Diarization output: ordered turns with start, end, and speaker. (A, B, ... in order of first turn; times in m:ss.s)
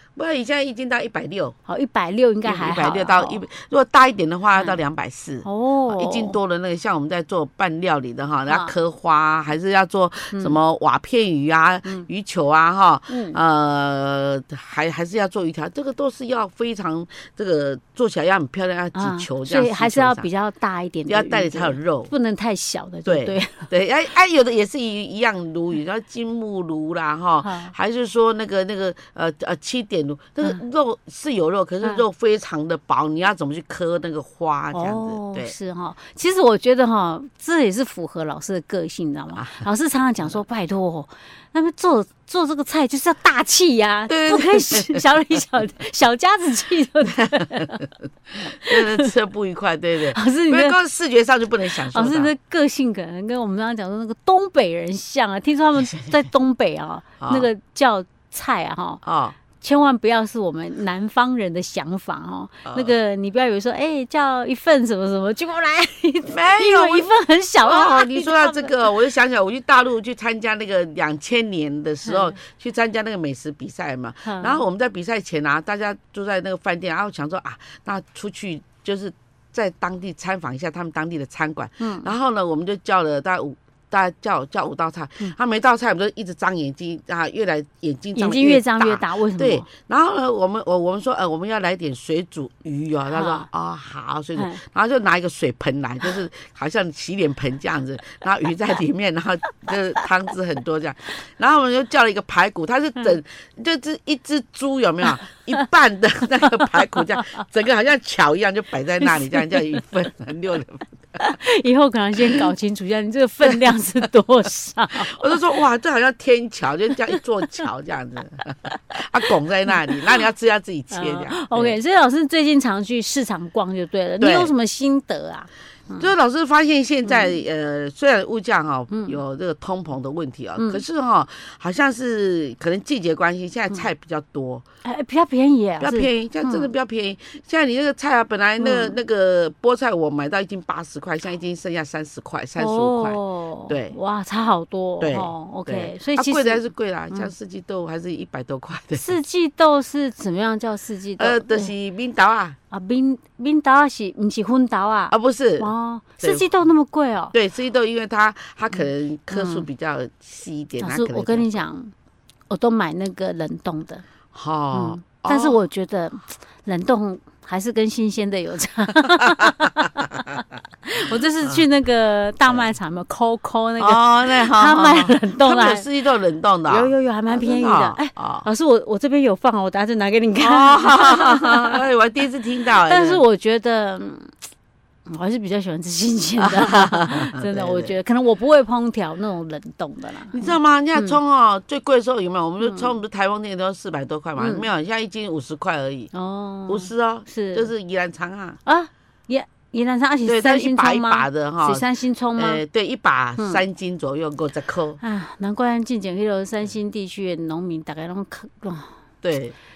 0:00.2-0:01.6 A
0:01.7-0:03.4 B
0:02.5-0:20.3 A
0:05.4-0:06.4 B
0:08.5-0:08.7 B
0:10.3-0:10.6 B
0:13.1-0:13.4 B
0:19.0-0:23.7 B
0:21.1-0:22.1 A
0:23.0-0:35.5 A
0:27.4-0:27.7 B
0:34.7-0:47.8 B
0:39.4-0:39.7 A
0:44.1-0:45.0 A
0:47.2-0:52.3 A
0:48.4-0:49.1 B
0:50.1-0:50.8 B
0:51.8-0:59.0 B
0:55.8-0:56.3 A
0:57.2-0:57.5 A
0:59.0-0:59.4 A
0:59.6-1:08.9 B
1:02.6-1:02.9 A
1:06.3-1:07.1 A
1:07.6-1:51.3 A
1:12.1-1:12.3 B
1:14.2-1:14.6 B
1:21.8-1:22.1 B
1:28.2-1:29.7 B
1:33.1-1:33.5 B
1:34.4-1:34.6 B
1:46.6-1:47.4 B
1:49.0-1:49.8 B
1:51.2-1:55.4 B
1:52.2-1:52.5 A
1:53.4-1:53.8 A
1:54.9-2:01.8 A
1:57.1-1:57.6 B
1:59.8-2:00.2 B
2:00.9-2:06.1 B
2:04.2-2:04.5 A
2:06.0-2:14.7 A
2:07.0-2:07.4 B
2:08.9-2:09.2 B
2:10.6-2:10.8 B
2:14.8-2:16.7 B
2:15.8-2:24.0 A
2:18.6-2:19.0 B
2:22.6-2:27.3 B
2:25.0-2:29.2 A
2:29.0-2:31.7 B
2:31.2-2:32.6 A
2:32.7-2:37.4 B
2:35.1-2:36.5 A
2:37.3-2:41.7 A
2:39.3-2:39.7 B
2:40.8-2:41.9 B
2:42.5-2:44.0 B
2:44.3-2:45.6 A
2:44.7-2:55.9 B
2:49.2-2:49.6 A
2:52.5-2:52.7 A
2:53.8-2:58.5 A
2:56.7-3:01.8 B
3:00.4-3:03.2 A
3:02.7-3:04.4 B
3:05.1-3:11.2 B
3:06.4-3:08.0 A
3:10.3-3:16.1 A
3:12.6-3:12.9 B
3:14.4-3:14.7 B
3:16.1-3:17.7 B
3:16.7-3:18.6 A
3:18.6-3:22.6 B
3:20.3-3:25.0 A
3:25.0-3:29.0 B
3:29.2-3:29.6 A